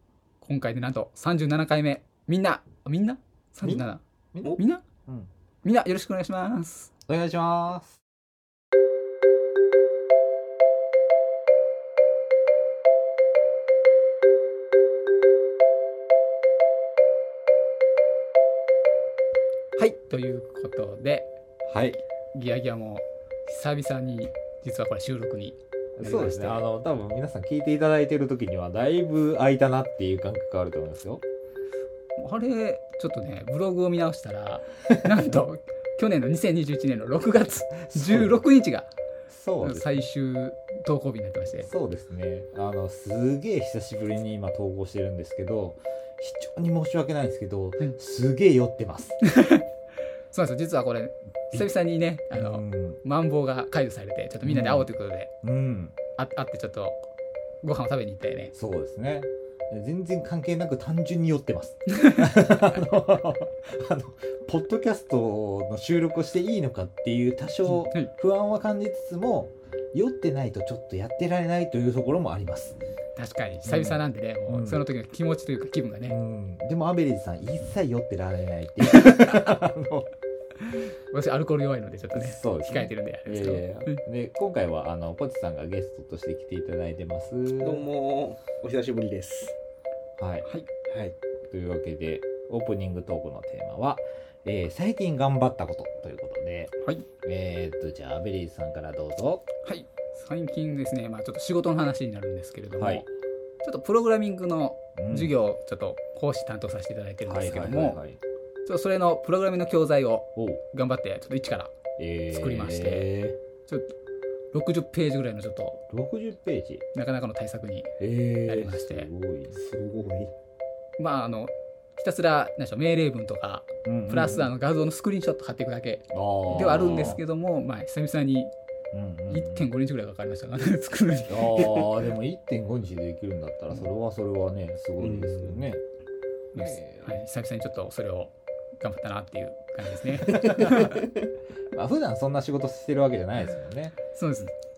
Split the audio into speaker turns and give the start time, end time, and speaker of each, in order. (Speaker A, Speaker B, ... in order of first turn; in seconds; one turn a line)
Speaker A: 0.4-4.0
Speaker B: 3.6-5.3
Speaker A: 4.6-4.8
Speaker A: 5.6-6.9
Speaker B: 7.1-8.0
Speaker A: 19.8-21.3
Speaker B: 21.7-22.0
Speaker A: 22.3-26.7
Speaker B: 26.0-31.2
Speaker A: 32.2-38.9
Speaker B: 35.1-35.4
Speaker B: 37.9-38.4
Speaker B: 39.3-40.1
Speaker A: 39.6-41.7
Speaker B: 41.6-49.2
Speaker A: 49.3-49.6
Speaker A: 50.3-55.3
Speaker B: 52.3-53.0
Speaker B: 54.5-54.9
Speaker B: 55.4-56.0
Speaker A: 56.2-57.0
Speaker A: 57.6-58.5
Speaker B: 58.5-72.8
Speaker A: 62.0-62.3
Speaker A: 67.7-68.1
Speaker A: 73.2-76.2
Speaker B: 73.6-74.8
Speaker B: 76.1-80.1
Speaker A: 80.7-84.0
Speaker B: 82.1-87.9
Speaker C: 87.6-89.6
Speaker B: 90.2-90.5
Speaker C: 90.9-91.2
Speaker B: 91.5-99.5
Speaker A: 99.6-103.1
Speaker B: 102.8-103.1
Speaker A: 103.6-108.0
Speaker B: 105.0-105.3
Speaker B: 107.2-108.2
Speaker A: 108.7-111.7
Speaker B: 110.4-110.6
Speaker B: 112.0-113.4
Speaker A: 112.3-113.1
Speaker A: 113.7-113.9
Speaker A: 114.5-115.8
Speaker B: 115.9-116.8
Speaker A: 116.9-117.9
Speaker B: 118.0-119.6
Speaker A: 118.5-119.1
Speaker C: 119.5-120.3
Speaker A: 121.0-128.5
Speaker B: 123.8-124.5
Speaker B: 126.1-127.2
Speaker B: 128.9-129.7
Speaker A: 129.3-131.7
Speaker B: 131.3-135.8
Speaker C: 131.7-132.0
Speaker C: 135.0-135.7
Speaker B: 136.5-137.2
Speaker A: 136.6-141.0
Speaker B: 140.3-141.0
Speaker C: 140.3-141.1
Speaker B: 141.7-144.0
Speaker A: 144.1-144.5